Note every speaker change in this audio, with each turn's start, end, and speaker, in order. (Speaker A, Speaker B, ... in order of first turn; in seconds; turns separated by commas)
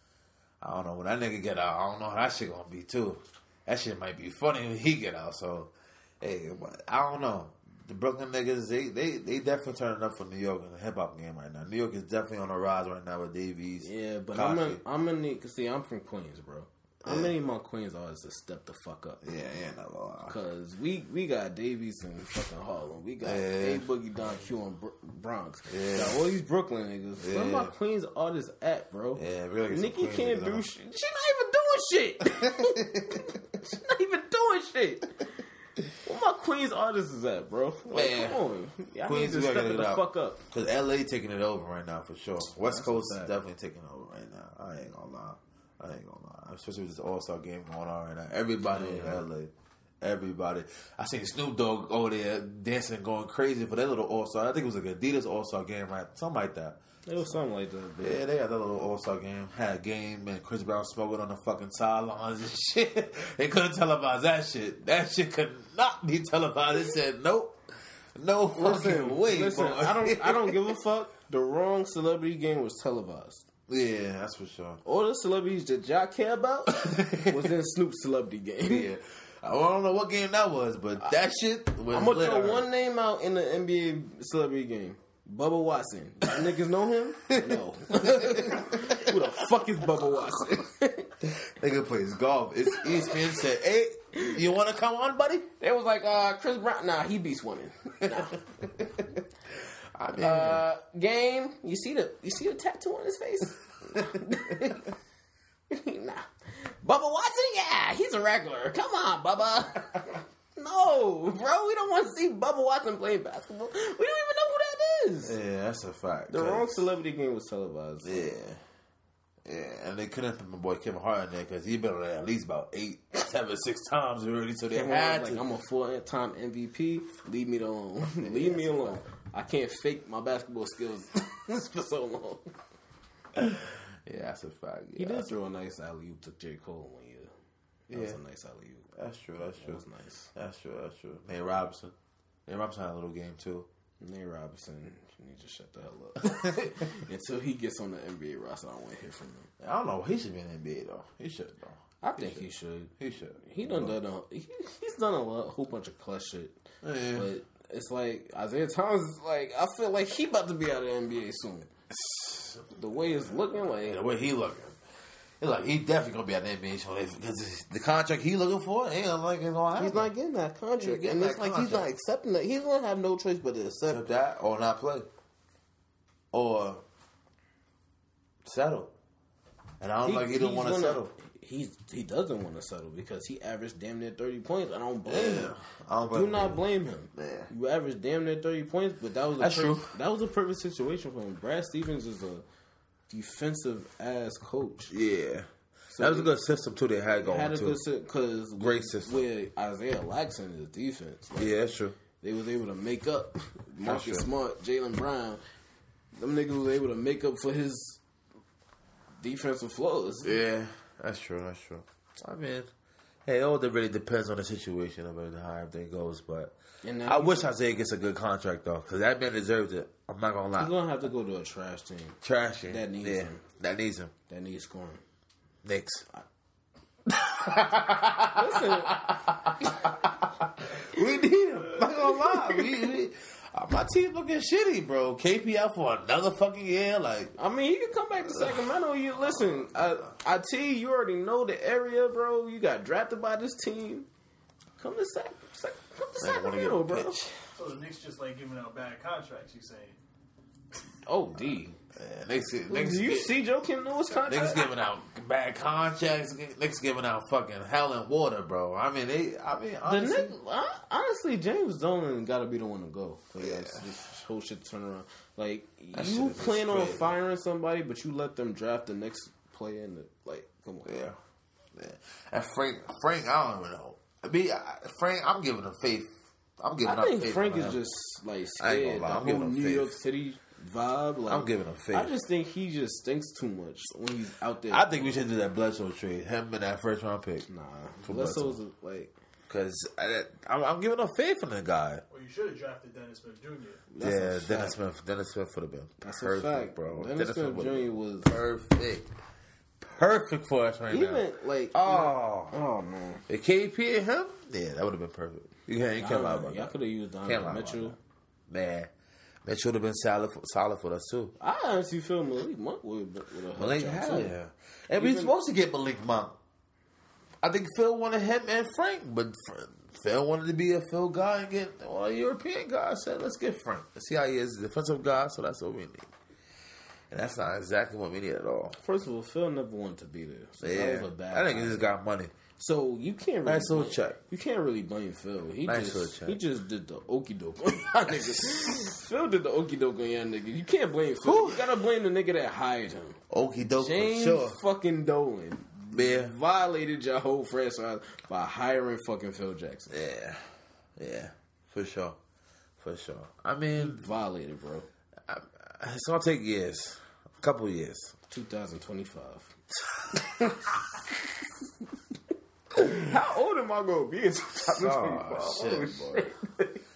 Speaker A: 0.6-14.8, Speaker B: 13.8-19.2, Speaker A: 17.0-17.3, Speaker A: 19.2-20.4, Speaker B: 20.3-35.3, Speaker A: 23.2-23.8, Speaker A: 25.7-26.2, Speaker A: 27.2-27.7, Speaker A: 29.1-30.6, Speaker A: 32.2-33.3, Speaker B: 36.0-40.4, Speaker A: 37.9-38.4, Speaker A: 39.0-57.3, Speaker B: 42.6-43.3, Speaker B: 48.6-49.2, Speaker B: 57.0-58.2, Speaker A: 58.0-67.5, Speaker A: 68.2-70.6, Speaker B: 68.5-73.5, Speaker A: 73.7-74.8, Speaker B: 74.8-78.9, Speaker A: 76.7-77.5, Speaker A: 78.6-82.7, Speaker B: 81.9-91.3, Speaker A: 87.3-89.2, Speaker A: 91.2-95.5, Speaker B: 95.6-98.4, Speaker A: 98.8-99.1, Speaker A: 99.9-100.6, Speaker B: 100.2-104.9, Speaker B: 105.7-115.4, Speaker A: 115.2-116.9, Speaker B: 116.3-118.3, Speaker A: 118.0-118.6, Speaker A: 119.4-125.4, Speaker B: 124.7-132.4, Speaker A: 128.1-129.0, Speaker A: 133.3-135.3, Speaker B: 135.0-137.3, Speaker B: 137.9-138.9, Speaker A: 137.9-138.2, Speaker A: 138.9-139.8, Speaker B: 139.6-140.3, Speaker A: 140.3-141.9, Speaker A: 142.5-143.7, Speaker B: 144.0-149.5, Speaker A: 146.2-146.7, Speaker A: 149.6-154.0, Speaker B: 152.0-156.6, Speaker A: 156.8-157.3, Speaker B: 157.1-161.7, Speaker A: 161.9-164.8, Speaker B: 162.7-164.0, Speaker A: 165.4-170.1, Speaker B: 169.8-174.1, Speaker A: 170.8-171.9, Speaker A: 173.9-175.1, Speaker A: 176.3-176.8, Speaker A: 178.4-178.9, Speaker A: 179.8-181.1, Speaker B: 180.0-185.5, Speaker A: 185.1-186.6, Speaker B: 186.1-192.4, Speaker A: 187.1-187.5, Speaker A: 189.4-189.9, Speaker B: 193.1-194.9, Speaker A: 194.9-197.8, Speaker B: 195.9-196.3, Speaker B: 197.2-201.6, Speaker A: 198.6-199.2, Speaker A: 201.4-202.0, Speaker B: 202.2-205.4, Speaker A: 203.8-204.3, Speaker B: 206.1-208.0, Speaker B: 209.2-210.4, Speaker A: 210.2-212.7, Speaker A: 213.2-216.5, Speaker B: 216.8-217.5, Speaker A: 217.1-220.7, Speaker B: 220.6-223.4, Speaker A: 222.2-224.1, Speaker B: 224.3-225.0, Speaker A: 225.6-226.1, Speaker A: 227.1-237.3, Speaker B: 228.3-229.0, Speaker B: 231.8-232.7, Speaker B: 237.4-244.1, Speaker A: 238.2-238.6, Speaker B: 244.8-247.2, Speaker A: 246.2-247.4, Speaker C: 247.6-250.0, Speaker B: 251.1-251.8, Speaker A: 251.9-253.4, Speaker B: 252.7-254.7, Speaker A: 254.2-260.4, Speaker B: 259.8-270.9, Speaker A: 263.4-263.9, Speaker A: 265.9-267.1, Speaker A: 270.8-271.2, Speaker A: 271.7-277.8, Speaker B: 276.8-285.0, Speaker A: 278.6-279.9, Speaker A: 281.3-282.1, Speaker A: 284.7-287.5, Speaker B: 287.5-289.1, Speaker A: 288.0-288.6, Speaker A: 289.5-292.0, Speaker C: 292.1-293.9, Speaker B: 293.9-294.8, Speaker A: 294.0-299.1, Speaker B: 296.0-298.3, Speaker A: 299.8-302.6, Speaker B: 300.9-303.2, Speaker A: 303.3-307.9, Speaker B: 306.0-308.0, Speaker A: 308.5-308.9, Speaker A: 309.4-311.3, Speaker B: 311.4-314.3, Speaker A: 313.5-316.4, Speaker B: 314.9-315.3, Speaker A: 317.4-326.1, Speaker A: 327.1-328.8, Speaker B: 328.8-331.9, Speaker A: 330.6-332.3, Speaker B: 332.6-343.2, Speaker A: 333.4-334.2, Speaker A: 335.6-336.4, Speaker A: 338.1-338.9, Speaker A: 341.2-341.7, Speaker A: 343.3-344.6, Speaker B: 343.7-349.9, Speaker A: 345.9-346.3, Speaker A: 349.9-352.2, Speaker A: 352.8-354.1, Speaker B: 353.8-354.9, Speaker A: 355.3-358.1, Speaker B: 358.3-359.5, Speaker A: 360.1-360.5, Speaker B: 360.1-361.1, Speaker B: 362.7-366.8, Speaker A: 362.8-363.1, Speaker A: 364.6-366.2